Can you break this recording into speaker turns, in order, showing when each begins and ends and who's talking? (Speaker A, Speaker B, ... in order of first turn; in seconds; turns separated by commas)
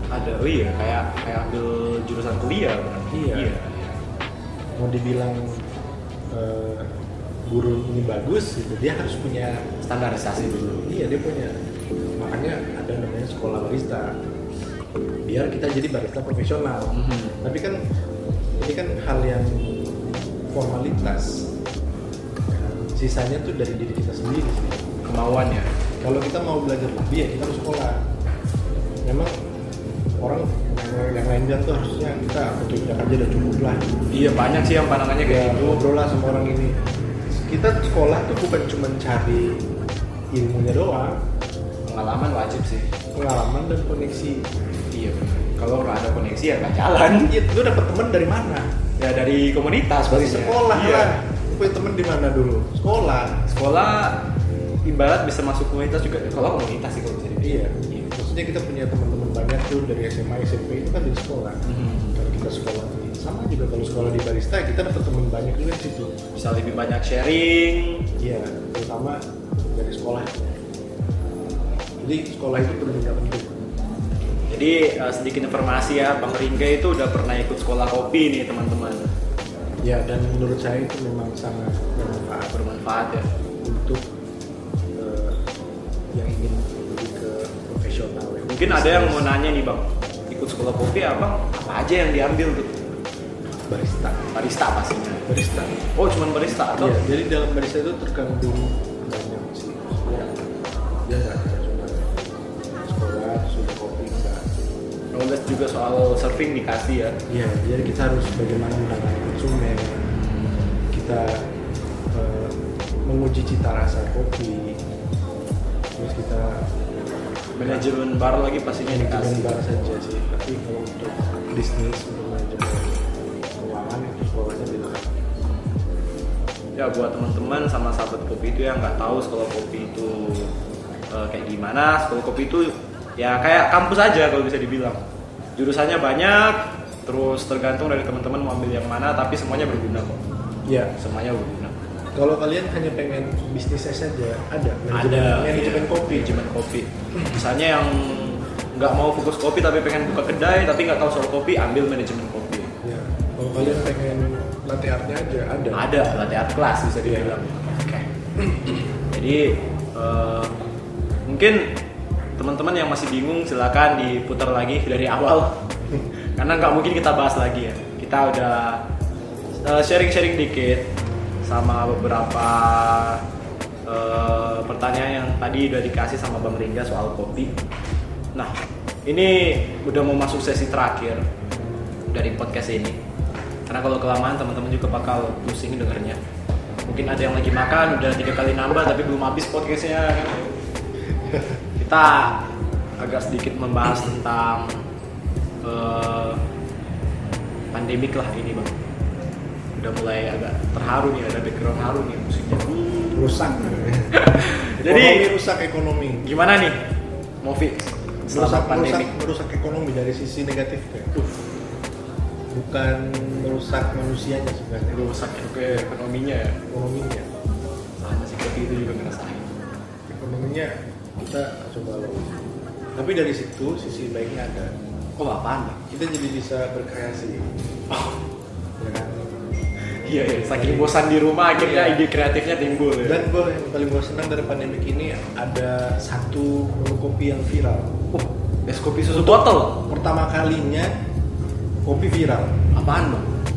Speaker A: 0.1-4.0, Speaker B: 3.1-3.5, Speaker B: 4.8-5.7, Speaker B: 6.3-6.9, Speaker B: 7.5-9.7, Speaker A: 9.8-10.9, Speaker B: 10.8-11.6, Speaker B: 12.2-14.2, Speaker B: 15.2-17.8, Speaker A: 16.9-17.4, Speaker B: 18.6-21.5, Speaker B: 22.5-24.9, Speaker A: 25.1-25.7, Speaker B: 26.0-28.0, Speaker B: 29.1-29.3, Speaker B: 30.2-33.8, Speaker A: 34.1-35.9, Speaker B: 35.2-36.8, Speaker B: 37.3-39.7, Speaker B: 40.3-41.2, Speaker A: 41.9-42.9, Speaker B: 43.1-44.5, Speaker A: 44.9-47.3, Speaker B: 47.2-48.7, Speaker A: 49.0-51.1, Speaker B: 50.1-53.4, Speaker A: 53.5-54.2, Speaker A: 54.9-58.1, Speaker B: 57.4-61.6, Speaker A: 61.7-62.2, Speaker B: 62.1-66.1, Speaker A: 66.3-68.1, Speaker B: 68.2-69.2, Speaker B: 69.7-70.6, Speaker B: 72.0-73.6, Speaker A: 74.5-79.1, Speaker B: 79.8-82.6, Speaker A: 82.5-83.3, Speaker B: 83.6-84.1, Speaker B: 85.0-85.4, Speaker B: 86.1-89.3, Speaker A: 88.5-92.8, Speaker B: 93.7-94.3, Speaker A: 94.3-95.2, Speaker B: 95.3-95.8, Speaker A: 96.0-97.0, Speaker B: 96.8-100.3, Speaker B: 101.1-102.1, Speaker B: 102.8-104.5, Speaker A: 105.1-107.2, Speaker B: 107.3-110.1, Speaker B: 110.9-111.5, Speaker B: 112.1-114.8, Speaker B: 116.0-116.7, Speaker A: 117.6-119.6, Speaker B: 117.6-117.8, Speaker B: 118.9-123.0, Speaker B: 123.6-125.2, Speaker A: 126.8-130.5, Speaker A: 131.1-135.0, Speaker A: 135.6-140.2, Speaker B: 140.7-140.9, Speaker A: 141.0-141.8, Speaker B: 142.2-146.5, Speaker A: 144.9-152.7, Speaker B: 152.8-155.9, Speaker A: 155.7-158.1, Speaker B: 157.0-157.4, Speaker B: 158.4-158.9, Speaker A: 159.1-160.7, Speaker A: 161.3-161.7, Speaker A: 162.4-165.6, Speaker A: 166.4-168.8, Speaker A: 169.6-170.9, Speaker A: 171.4-173.2, Speaker A: 173.9-177.6, Speaker A: 179.1-181.2, Speaker A: 182.1-183.0, Speaker A: 183.7-186.2, Speaker A: 186.9-190.5, Speaker A: 191.8-192.4, Speaker A: 193.0-194.8, Speaker A: 195.6-196.4, Speaker A: 197.7-198.8, Speaker A: 199.8-203.2, Speaker B: 203.1-206.3, Speaker A: 204.1-205.3, Speaker A: 206.2-206.8, Speaker A: 207.4-209.1, Speaker B: 208.3-211.1, Speaker A: 211.2-211.4, Speaker B: 212.5-215.9, Speaker A: 214.9-216.6, Speaker B: 216.7-217.3, Speaker A: 218.0-219.5, Speaker B: 220.1-222.3, Speaker B: 223.0-224.8, Speaker A: 225.2-225.8, Speaker B: 225.9-227.5, Speaker A: 227.9-228.2, Speaker B: 228.8-229.3, Speaker A: 230.0-233.2, Speaker B: 230.2-231.0, Speaker B: 231.5-232.0, Speaker B: 233.0-238.0, Speaker A: 238.1-239.8, Speaker B: 239.1-241.0, Speaker B: 241.8-242.6, Speaker A: 242.7-243.3